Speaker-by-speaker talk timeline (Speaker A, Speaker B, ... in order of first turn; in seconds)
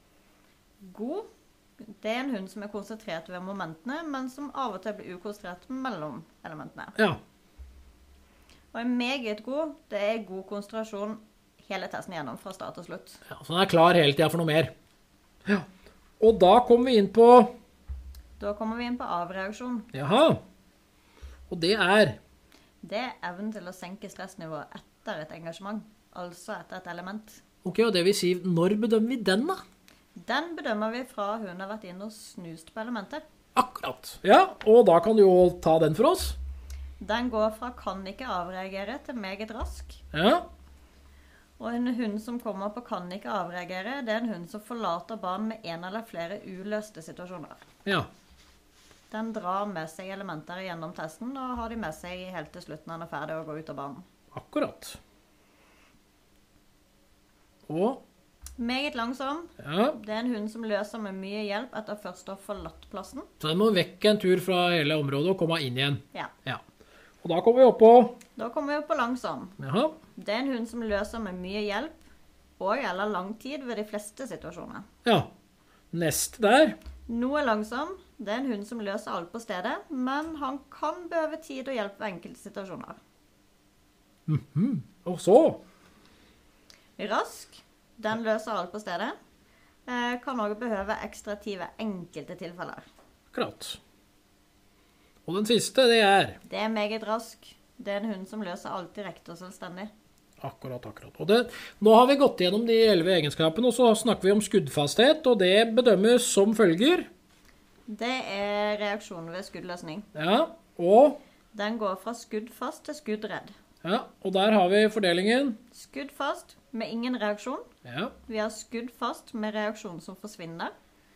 Speaker A: 0.8-1.3, 1.8-7.0, 8.7-13.2, 18.4-19.9, 22.8-27.4, 30.2-33.2, 37.0-40.0, 41.6-47.6, 49.1-54.0, 58.6-63.3, 68.3-69.6, 70.2-72.0, 72.6-74.8, 77.1-83.0, 87.0-89.1, 89.9-92.8, 96.5-99.9, 107.9-110.1, 111.5-113.5, 115.7-117.7, 118.3-120.7
Speaker B: 13.3-14.7, 16.2-17.5, 19.9-20.4, 21.5-22.2, 27.6-29.6, 33.5-36.4, 40.1-40.4, 54.3-55.0, 57.7-58.0, 59.6-60.0, 63.4-66.6, 67.2-68.2, 69.6-70.0, 75.9-76.8, 84.3-85.6, 93.3-93.8, 95.3-96.4, 100.4-107.1, 110.1-111.2, 113.8-115.6, 117.8-118.1